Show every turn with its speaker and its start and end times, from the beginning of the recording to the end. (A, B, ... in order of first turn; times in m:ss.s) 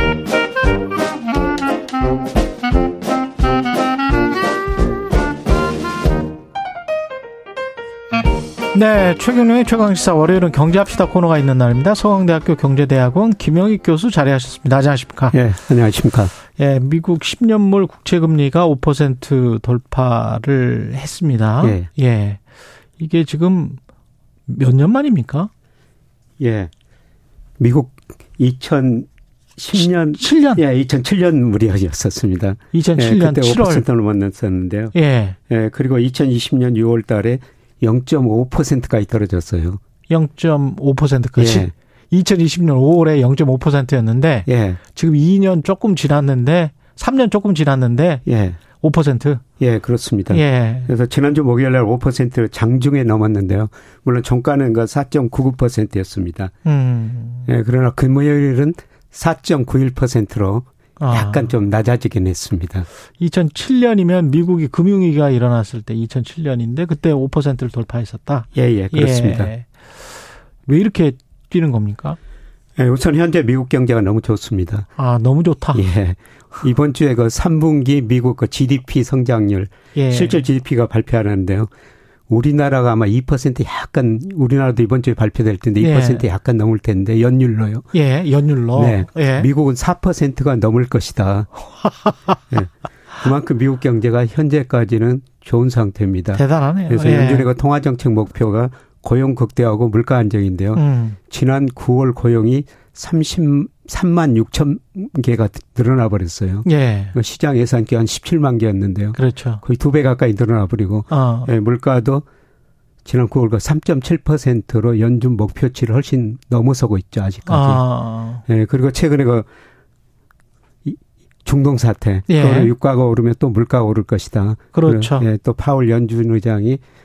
0:08.7-0:15.4 A
0:15.3-0:16.3 B
0:16.6-0:22.4 A
0:21.6-0:21.9 B
0:23.0-0:23.8 A
0:24.5-0:25.5 A
0:26.4-0:26.7 B
0:27.6-0:34.9 B
0:29.8-0:30.6 A
0:32.7-0:33.8 A
0:34.9-0:35.4 A
0:35.5-0:39.8 B
0:40.1-0:48.2 A
0:41.4-0:41.7 B
0:44.5-0:44.8 B
0:48.2-0:48.6 B
0:48.8-0:49.4 A
0:49.6-0:56.5 B
0:50.3-0:50.9 A
0:56.6-0:57.5 A
0:57.5-1:02.9 B
1:01.0-1:01.5 A
1:03.2-1:09.7 A
1:08.5-1:09.5 B
1:10.6-1:12.2 A
1:12.8-1:14.9 B
1:15.0-1:15.8 A
1:15.7-1:21.7 B
1:19.9-1:20.4 A
1:22.3-1:27.8 B
1:25.8-1:26.2 A
1:27.9-1:29.5 A
1:28.7-1:31.5 B
1:31.8-1:32.3 A
1:32.5-1:52.2 B
1:36.4-1:37.5 A
1:40.7-1:41.2 A
1:46.6-1:47.1 A
1:49.2-1:49.6 A
1:51.1-1:51.5 A
1:53.0-1:57.8 B
1:57.4-1:58.4 A
1:58.5-1:59.4 B
2:00.8-2:06.8 B
2:02.3-2:02.7 A
2:04.7-2:05.2 A